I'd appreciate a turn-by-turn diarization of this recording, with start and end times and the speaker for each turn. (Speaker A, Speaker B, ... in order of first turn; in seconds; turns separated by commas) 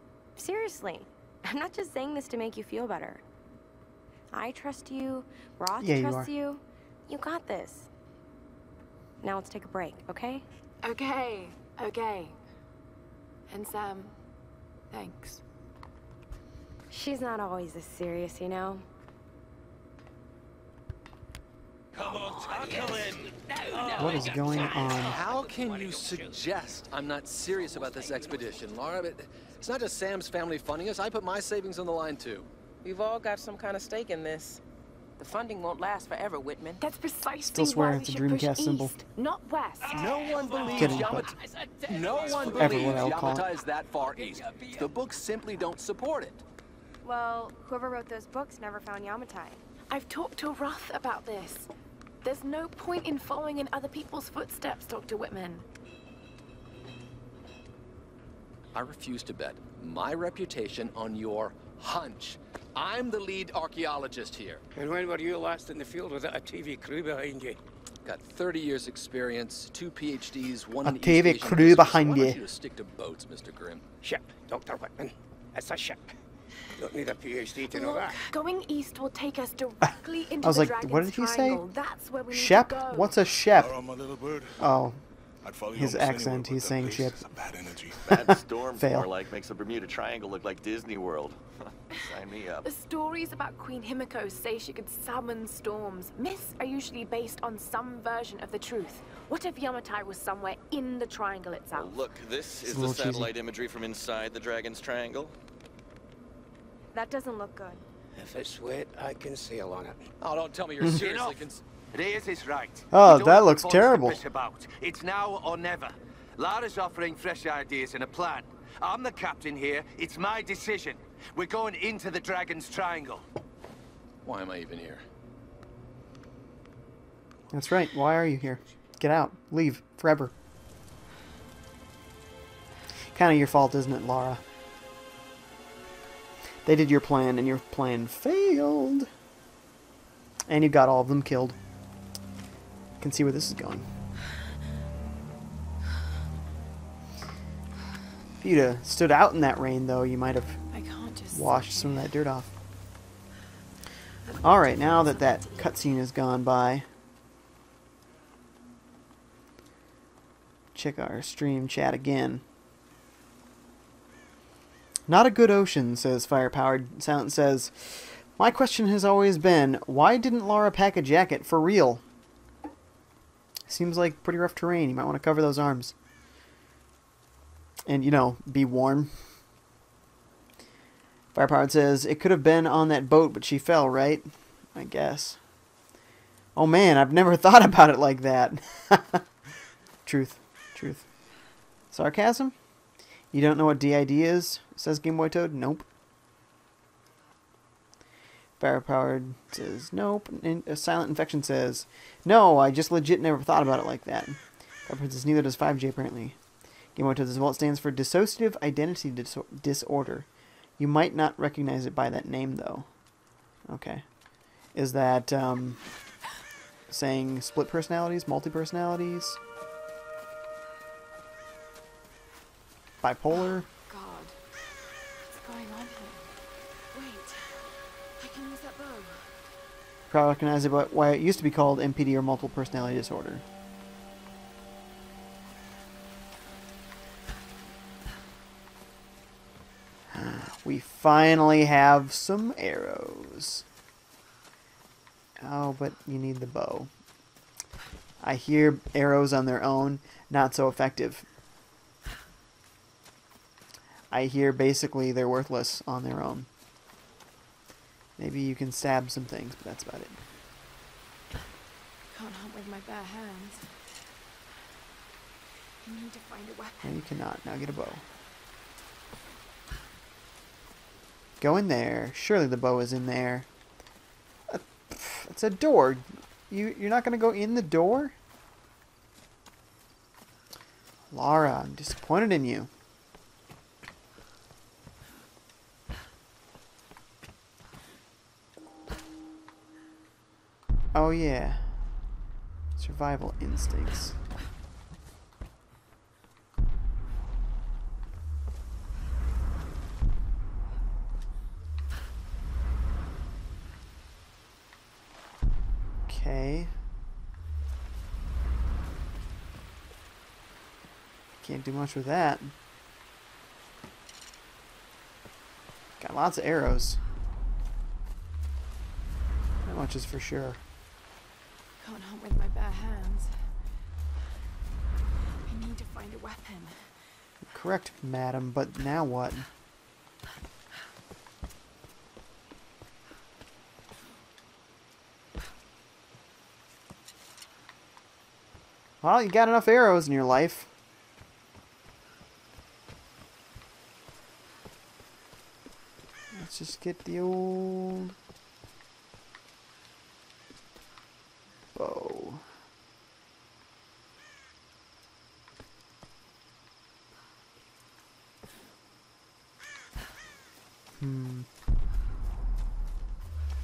Speaker A: 0.3-3.2, Speaker A: 4.3-7.9, Speaker B: 5.8-6.3, Speaker A: 9.2-10.4, Speaker C: 10.8-12.3, Speaker C: 13.5-14.1, Speaker C: 14.9-15.4, Speaker A: 16.9-18.8, Speaker D: 22.0-26.2, Speaker E: 22.1-22.9, Speaker F: 22.3-23.2, Speaker B: 23.9-25.2, Speaker F: 23.9-25.2, Speaker G: 24.7-32.5, Speaker E: 25.6-26.2, Speaker E: 27.4-28.7, Speaker H: 32.8-34.6, Speaker H: 35.2-36.8, Speaker C: 36.8-42.7, Speaker B: 37.4-38.9, Speaker G: 39.9-46.4, Speaker D: 40.2-40.8, Speaker B: 40.7-41.3, Speaker D: 42.0-42.5, Speaker B: 42.4-43.5, Speaker C: 43.9-44.9, Speaker A: 47.0-49.6, Speaker C: 49.9-51.7, Speaker C: 52.2-55.6, Speaker G: 58.7-64.6, Speaker D: 64.7-67.6, Speaker G: 68.0-73.8, Speaker B: 70.8-72.4, Speaker D: 74.0-76.1, Speaker D: 76.8-78.2, Speaker C: 77.7-83.1, Speaker B: 80.4-81.6, Speaker B: 82.3-83.8, Speaker I: 83.5-84.6, Speaker B: 84.6-85.0, Speaker I: 85.4-88.1, Speaker B: 85.7-87.2, Speaker F: 88.0-91.4, Speaker B: 88.2-89.1, Speaker F: 91.9-92.7, Speaker C: 92.6-102.0, Speaker F: 101.7-105.3, Speaker B: 102.6-103.3, Speaker A: 106.9-107.8, Speaker D: 108.2-110.1, Speaker G: 110.2-111.6, Speaker E: 110.9-123.2, Speaker B: 112.9-114.2, Speaker G: 124.2-125.0, Speaker B: 127.5-130.3, Speaker B: 133.1-134.4, Speaker B: 136.6-139.1, Speaker B: 140.5-141.6, Speaker B: 143.0-143.8, Speaker B: 148.4-150.6, Speaker C: 150.7-152.1, Speaker B: 151.3-152.5, Speaker C: 154.2-155.9, Speaker B: 154.4-156.8, Speaker B: 160.7-162.4, Speaker B: 165.1-172.0, Speaker B: 173.7-175.9, Speaker B: 177.9-179.1, Speaker B: 181.3-185.4, Speaker B: 186.5-189.2, Speaker B: 190.1-191.0, Speaker B: 191.9-192.5, Speaker B: 193.3-195.8, Speaker B: 198.6-206.4, Speaker B: 206.9-212.9, Speaker B: 213.7-214.1, Speaker B: 214.7-215.8, Speaker B: 216.9-219.4, Speaker B: 223.0-223.7, Speaker C: 223.3-224.4, Speaker C: 225.2-229.5, Speaker B: 230.1-233.4, Speaker B: 240.1-243.6, Speaker B: 245.4-246.9, Speaker B: 248.2-251.2, Speaker B: 254.1-256.5, Speaker B: 258.2-260.2, Speaker C: 262.1-263.9, Speaker C: 265.8-267.0, Speaker B: 266.8-268.0, Speaker B: 271.4-273.5, Speaker B: 274.5-278.1, Speaker B: 281.1-282.7, Speaker B: 290.9-291.7, Speaker B: 292.8-294.1, Speaker B: 306.1-306.7, Speaker B: 311.4-312.5, Speaker B: 316.0-317.0, Speaker B: 319.6-320.6, Speaker C: 321.8-323.5, Speaker C: 325.4-327.2, Speaker B: 327.5-329.5, Speaker B: 339.0-340.7, Speaker B: 346.3-348.1, Speaker B: 351.7-352.4, Speaker B: 361.0-361.4